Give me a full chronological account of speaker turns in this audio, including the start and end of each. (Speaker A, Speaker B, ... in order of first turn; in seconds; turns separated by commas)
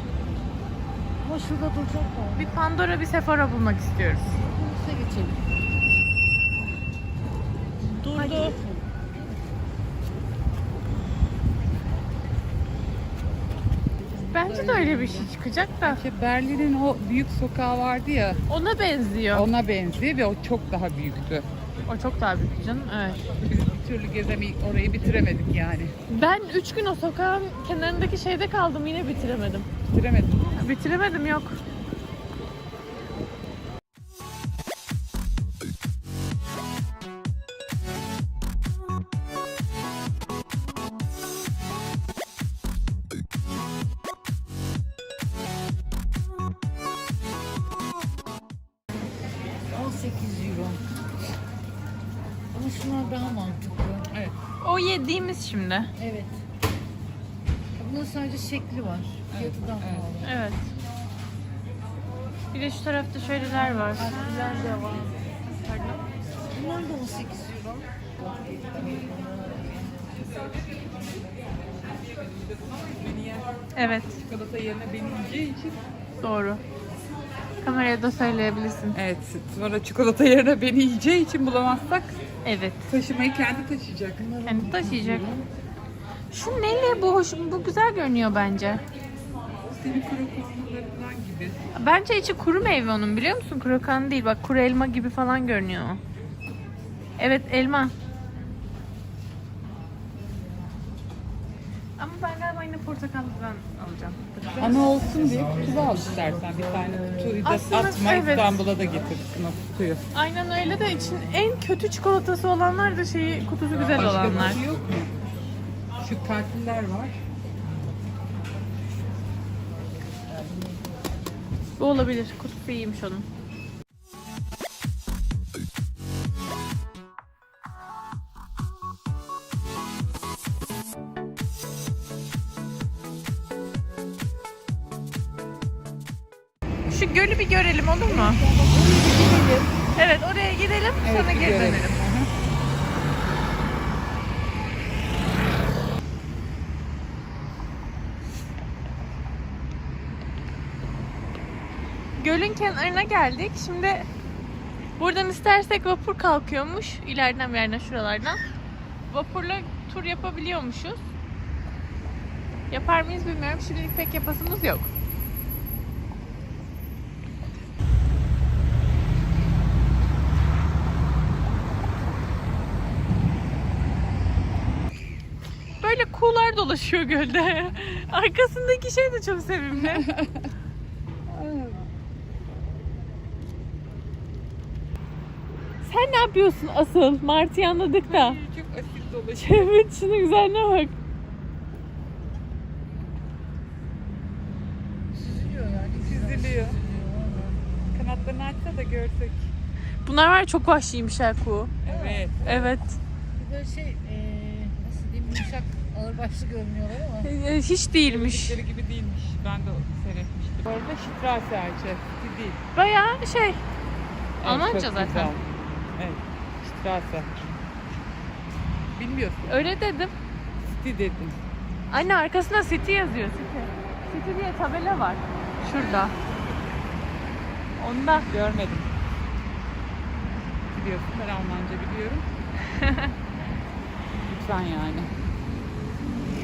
Speaker A: 1.2-2.6, Speaker B: 2.4-4.3, Speaker A: 4.3-5.4, Speaker B: 7.8-8.6, Speaker A: 8.1-8.8, Speaker A: 14.0-15.4, Speaker B: 14.3-16.0, Speaker C: 15.8-18.4, Speaker B: 18.5-19.4, Speaker C: 19.3-21.5, Speaker B: 21.9-23.2, Speaker C: 23.4-25.9, Speaker B: 26.1-29.7, Speaker C: 29.9-30.6, Speaker B: 30.6-31.6, Speaker A: 49.7-50.8, Speaker A: 52.5-54.1, Speaker C: 54.1-54.4, Speaker B: 54.6-55.9, Speaker A: 56.0-56.4, Speaker A: 57.8-60.3, Speaker C: 59.3-60.1, Speaker B: 60.2-60.6, Speaker B: 62.5-64.6, Speaker A: 63.5-65.2, Speaker A: 66.5-70.1, Speaker C: 70.3-75.8, Speaker B: 73.7-74.2, Speaker B: 76.2-76.6, Speaker B: 77.6-79.0, Speaker C: 78.9-82.2, Speaker B: 82.4-82.9, Speaker C: 82.9-84.2, Speaker A: 84.2-85.5, Speaker B: 84.4-85.2, Speaker B: 86.3-88.8, Speaker C: 89.6-91.6, Speaker B: 91.7-96.0, Speaker B: 97.2-97.9, Speaker B: 102.0-104.8, Speaker C: 104.6-110.0, Speaker B: 107.4-108.5, Speaker B: 110.1-114.6, Speaker C: 113.8-115.1, Speaker C: 116.0-117.2, Speaker B: 121.8-123.2, Speaker B: 136.9-138.4, Speaker A: 138.2-139.1, Speaker C: 138.6-139.7, Speaker B: 139.9-141.9, Speaker C: 141.0-142.3, Speaker B: 152.2-154.1, Speaker B: 155.0-158.4, Speaker B: 159.1-161.0, Speaker B: 162.7-164.9, Speaker B: 175.8-180.1, Speaker C: 179.7-180.5, Speaker C: 181.3-181.8, Speaker B: 185.8-188.4, Speaker C: 188.0-189.7, Speaker B: 189.4-190.9, Speaker A: 195.1-197.7, Speaker C: 196.0-196.8, Speaker C: 197.9-199.5, Speaker B: 200.0-201.7, Speaker C: 201.8-202.7, Speaker A: 201.8-202.2, Speaker B: 202.4-203.0, Speaker A: 203.3-207.3, Speaker B: 207.2-208.6, Speaker C: 208.0-212.6, Speaker B: 212.7-213.6, Speaker C: 214.4-217.6, Speaker B: 214.4-215.3, Speaker C: 218.9-219.6, Speaker B: 219.5-220.1, Speaker C: 220.7-221.4, Speaker B: 221.9-226.1, Speaker C: 225.7-226.1, Speaker B: 227.8-228.3, Speaker C: 228.2-228.9, Speaker C: 230.7-232.2, Speaker B: 232.7-233.1, Speaker C: 234.2-235.1